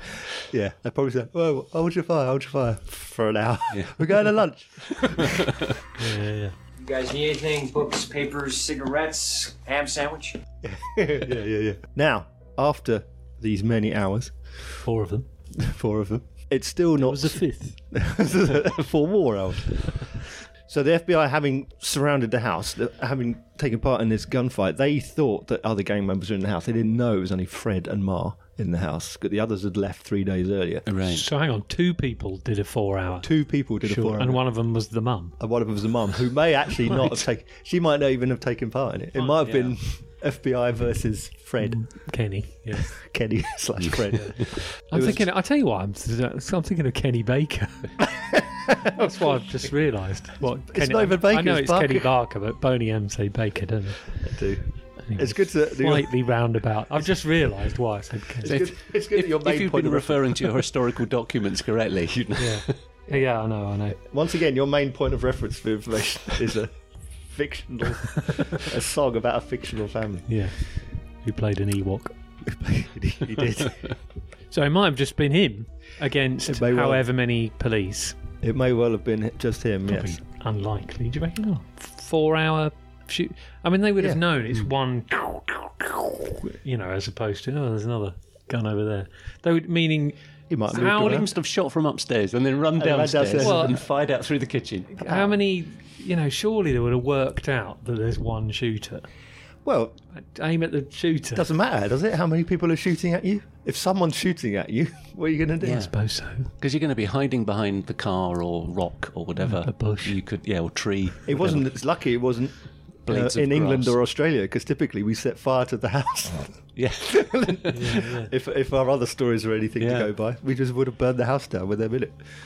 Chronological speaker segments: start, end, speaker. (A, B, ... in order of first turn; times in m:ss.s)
0:00.4-0:05.4 A
0:03.7-0:04.2 B
0:05.0-0:05.6 B
0:06.0-0:06.6 C
0:06.8-0:10.4 D
0:10.6-0:14.7 A
0:14.8-0:15.3 C
0:15.6-0:30.9 A
0:17.0-0:17.8 C
0:30.9-0:31.2 B
0:31.0-0:35.4 C
0:33.2-0:34.4 A
0:35.4-0:45.2 A
0:36.9-0:37.2 C
0:39.4-0:39.8 B
0:41.6-0:43.0 C
0:44.2-0:48.1 C
0:48.2-0:48.8 A
0:48.8-0:54.2 C
0:50.4-0:52.1 A
0:54.2-0:56.1 A
0:55.1-0:58.6 C
0:58.4-1:00.4 A
0:58.4-1:02.8 B
1:02.4-1:04.0 C
1:04.0-1:06.7 A
1:07.3-1:10.3 A
1:10.3-1:12.1 C
1:12.4-1:13.8 A
1:14.5-1:18.2 C
1:16.4-1:17.0 A
1:18.4-1:20.2 A
1:19.9-1:31.2 C
1:30.5-1:31.3 A
1:30.7-1:35.0 B
1:32.8-1:33.8 A
1:33.4-1:33.8 C
1:35.0-1:39.1 C
1:35.1-1:35.3 A
1:39.6-1:40.0 A
1:40.1-1:41.4 C
1:41.3-1:45.8 A
1:45.6-1:51.7 B
1:45.7-1:46.5 C
1:49.4-1:50.1 C
1:51.3-2:02.2 A
1:53.0-1:54.0 B
1:56.8-1:57.7 B
1:57.7-1:58.3 C
1:59.8-2:00.1 B